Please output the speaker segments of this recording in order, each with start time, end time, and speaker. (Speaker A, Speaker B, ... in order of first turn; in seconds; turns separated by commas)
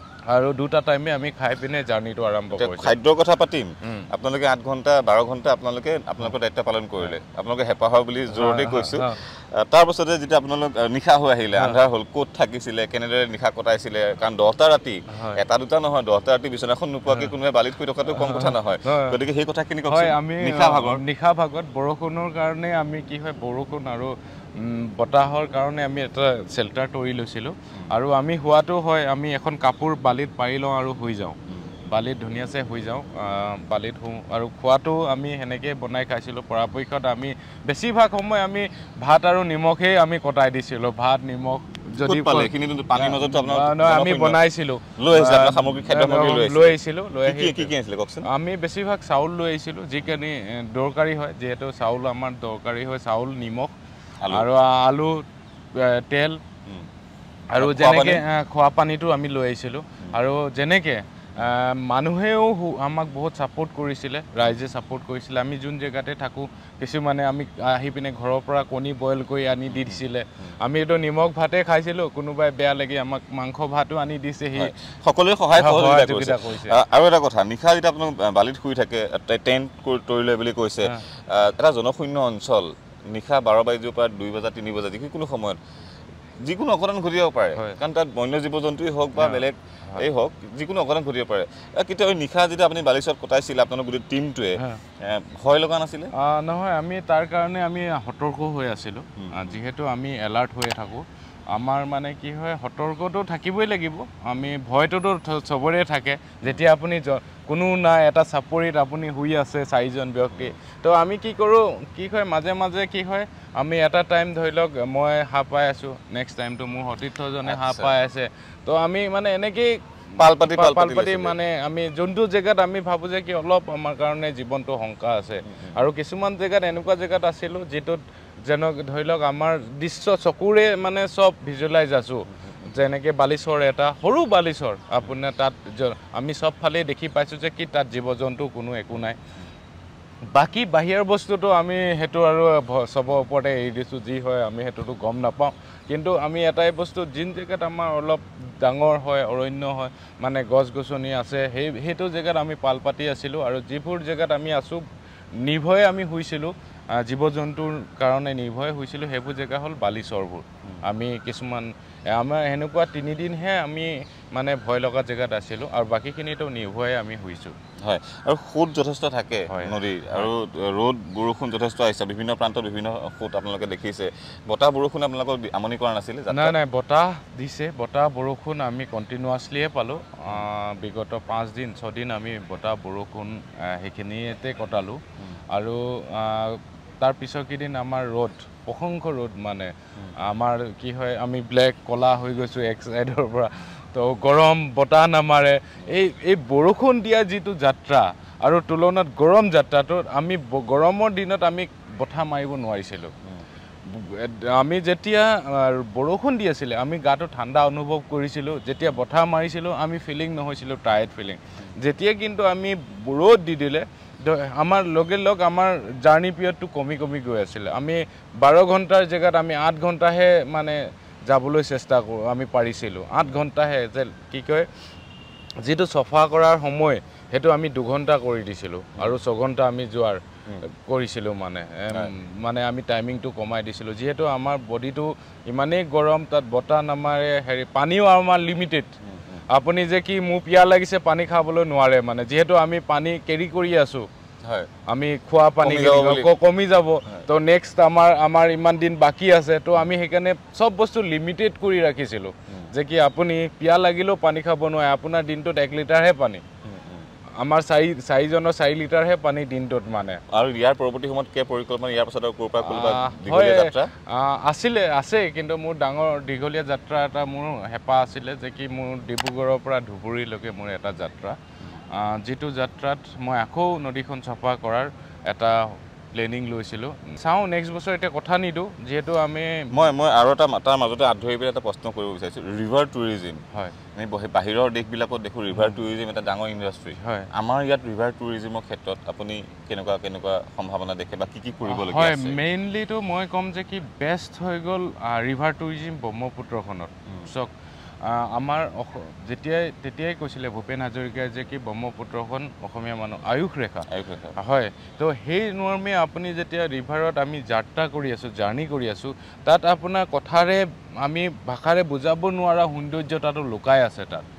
Speaker A: 0.3-2.9, Speaker B: 2.5-21.0, Speaker A: 8.3-9.2, Speaker A: 15.1-15.4, Speaker A: 17.1-17.3, Speaker A: 18.1-19.2, Speaker A: 19.9-47.7, Speaker B: 42.0-44.4, Speaker B: 45.0-48.3, Speaker A: 48.2-53.7, Speaker B: 54.2-54.5, Speaker A: 54.3-56.4, Speaker A: 57.5-74.7, Speaker B: 57.6-58.2, Speaker B: 69.7-70.0, Speaker B: 74.5-85.6, Speaker A: 75.5-76.8, Speaker B: 86.4-96.1, Speaker A: 89.2-90.0, Speaker A: 96.1-139.2, Speaker B: 99.2-99.6, Speaker B: 117.4-117.9, Speaker B: 120.2-121.3, Speaker B: 125.5-125.8, Speaker A: 140.3-154.8, Speaker A: 155.4-167.6, Speaker B: 167.8-176.6, Speaker A: 169.5-170.3, Speaker A: 176.3-203.1, Speaker A: 203.9-224.7, Speaker A: 225.6-238.9, Speaker B: 239.0-239.4, Speaker A: 239.5-244.1, Speaker A: 244.9-256.4, Speaker B: 245.6-246.3, Speaker B: 256.6-257.1, Speaker A: 257.4-260.2, Speaker B: 260.3-263.9, Speaker A: 262.6-271.4, Speaker A: 271.9-279.9, Speaker B: 279.7-283.4, Speaker B: 283.9-292.4, Speaker A: 285.5-285.8, Speaker A: 287.0-287.3, Speaker A: 291.7-297.5, Speaker A: 298.0-314.2, Speaker B: 303.9-304.3